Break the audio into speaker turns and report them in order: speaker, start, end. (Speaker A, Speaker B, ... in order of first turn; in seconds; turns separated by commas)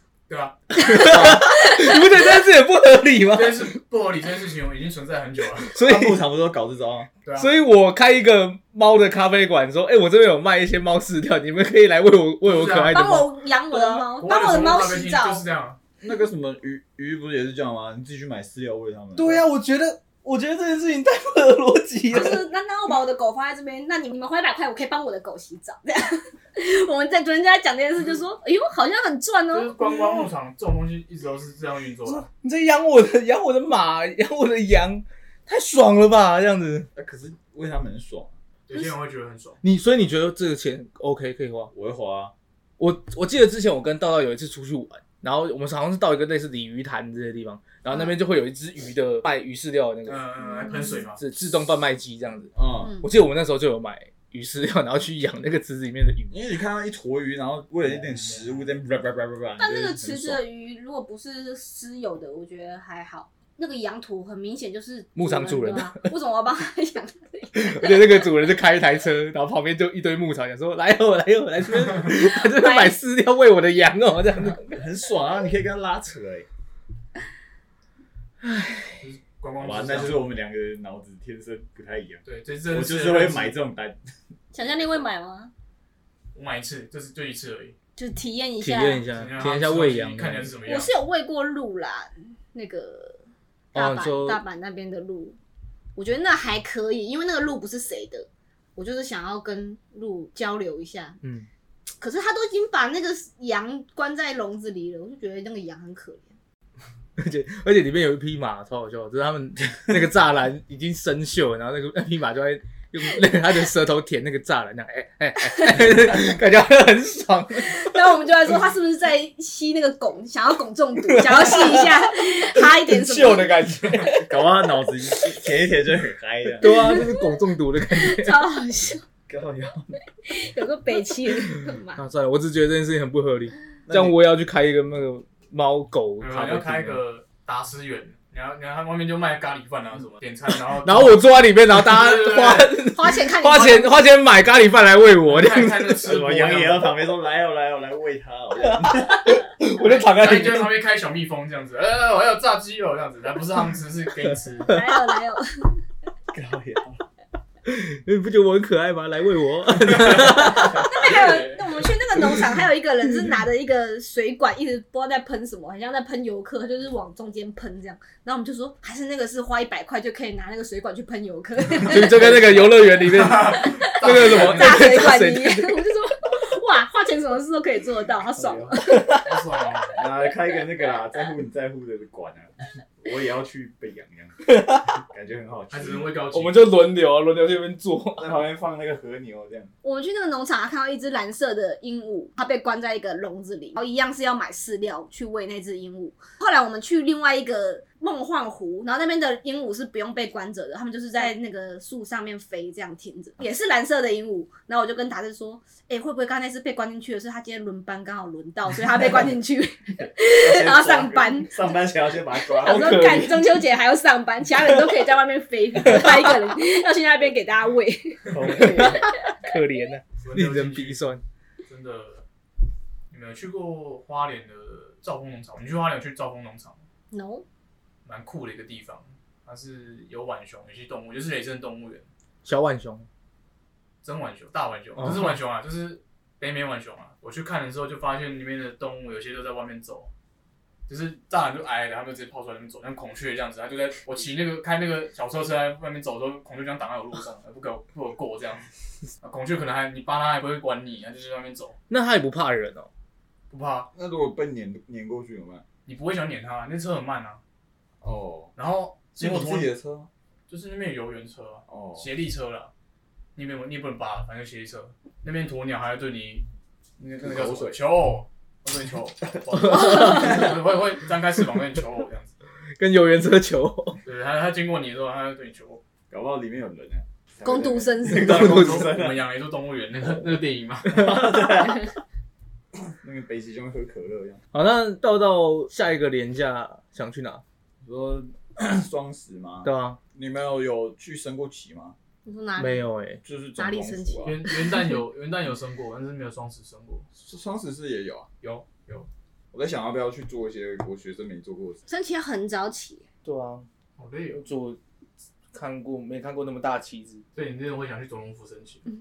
Speaker A: 0.3-1.1, Speaker B: 0.7-3.8, Speaker C: 0.8-2.1, Speaker D: 1.1-1.4, Speaker A: 3.3-5.7, Speaker B: 5.7-6.2, Speaker D: 5.8-7.1, Speaker B: 7.3-13.3, Speaker A: 12.4-13.0, Speaker C: 12.9-15.4, Speaker A: 13.7-15.8, Speaker D: 16.0-19.4, Speaker B: 19.1-22.5, Speaker C: 22.1-29.8, Speaker A: 29.5-32.3, Speaker B: 29.9-30.3, Speaker B: 32.0-36.9, Speaker D: 36.9-38.4, Speaker A: 38.7-39.6, Speaker B: 39.6-41.7, Speaker D: 41.7-42.3, Speaker B: 42.8-50.3, Speaker C: 47.9-48.2, Speaker A: 50.1-51.2, Speaker C: 50.4-51.0, Speaker B: 51.2-56.4, Speaker D: 52.5-53.0, Speaker C: 52.8-53.1, Speaker D: 56.3-60.4, Speaker A: 57.9-58.7, Speaker C: 59.6-68.3, Speaker B: 65.2-66.1, Speaker B: 67.5-74.8, Speaker C: 72.0-73.0, Speaker D: 74.6-76.5, Speaker B: 78.4-79.0, Speaker A: 79.0-80.3, Speaker D: 79.6-84.0, Speaker A: 82.2-83.6, Speaker C: 84.5-85.5, Speaker A: 86.3-87.8, Speaker C: 88.0-89.1, Speaker B: 88.6-90.5, Speaker A: 89.1-90.9, Speaker C: 90.7-93.2, Speaker B: 93.7-94.4, Speaker C: 93.7-95.4, Speaker C: 96.0-101.2, Speaker B: 101.2-101.5, Speaker C: 102.0-106.3, Speaker B: 107.2-118.0, Speaker C: 115.6-115.9, Speaker C: 117.6-123.8, Speaker B: 121.1-124.2, Speaker D: 124.0-126.8, Speaker B: 126.6-128.4, Speaker C: 126.7-127.4, Speaker C: 127.9-129.1, Speaker D: 129.3-130.0, Speaker C: 130.2-132.0, Speaker B: 131.9-137.0, Speaker D: 133.9-134.2, Speaker A: 136.2-142.9, Speaker B: 140.8-146.0, Speaker C: 142.9-144.0, Speaker A: 145.2-147.0, Speaker D: 146.0-149.4, Speaker B: 148.6-150.7, Speaker A: 149.8-154.8, Speaker B: 154.3-154.8, Speaker C: 154.7-155.8, Speaker D: 156.3-157.1, Speaker B: 157.7-160.9, Speaker A: 160.2-161.9, Speaker C: 160.6-172.4, Speaker B: 171.8-175.9, Speaker A: 173.1-174.9, Speaker C: 173.2-179.2, Speaker D: 178.3-178.8, Speaker B: 178.8-179.2, Speaker A: 179.1-180.0, Speaker D: 179.9-184.5, Speaker B: 184.5-185.0, Speaker D: 185.0-186.2, Speaker A: 185.7-186.7, Speaker B: 186.3-188.3, Speaker D: 188.2-189.7, Speaker C: 189.8-211.8, Speaker D: 210.3-213.1, Speaker C: 212.3-219.5, Speaker B: 212.6-213.6, Speaker B: 215.8-216.3, Speaker D: 218.3-219.1, Speaker B: 218.5-221.2, Speaker A: 220.2-221.0, Speaker A: 221.7-222.2, Speaker A: 223.1-226.8, Speaker C: 227.1-227.4, Speaker A: 228.1-232.1, Speaker B: 232.4-233.1, Speaker A: 234.0-240.1, Speaker B: 235.0-235.3, Speaker A: 240.9-248.7, Speaker A: 249.2-251.8, Speaker B: 251.9-252.9, Speaker A: 253.5-253.9, Speaker D: 253.9-255.7, Speaker A: 255.9-257.4, Speaker D: 258.0-258.5, Speaker A: 258.6-259.7, Speaker D: 259.2-260.1, Speaker A: 260.5-262.7, Speaker D: 261.7-262.1, Speaker A: 263.4-266.5, Speaker A: 267.0-272.3, Speaker D: 267.2-267.8, Speaker B: 269.5-270.5, Speaker C: 269.8-270.4, Speaker B: 272.8-274.0, Speaker A: 274.0-275.8, Speaker D: 276.1-279.2, Speaker C: 277.4-278.4, Speaker B: 278.2-278.9, Speaker A: 278.2-281.2, Speaker D: 280.9-281.9, Speaker D: 282.9-284.4, Speaker B: 284.5-287.4, Speaker D: 287.8-292.0, Speaker B: 289.6-290.0, Speaker C: 292.2-292.8, Speaker B: 292.6-293.2, Speaker D: 293.2-294.4, Speaker C: 293.6-294.9, Speaker A: 294.2-297.1, Speaker D: 297.1-298.3, Speaker A: 298.4-299.1, Speaker D: 299.5-301.8, Speaker C: 301.9-303.1, Speaker B: 303.2-303.7, Speaker A: 304.0-304.4, Speaker B: 304.3-304.8, Speaker B: 305.5-307.2, Speaker A: 307.3-308.9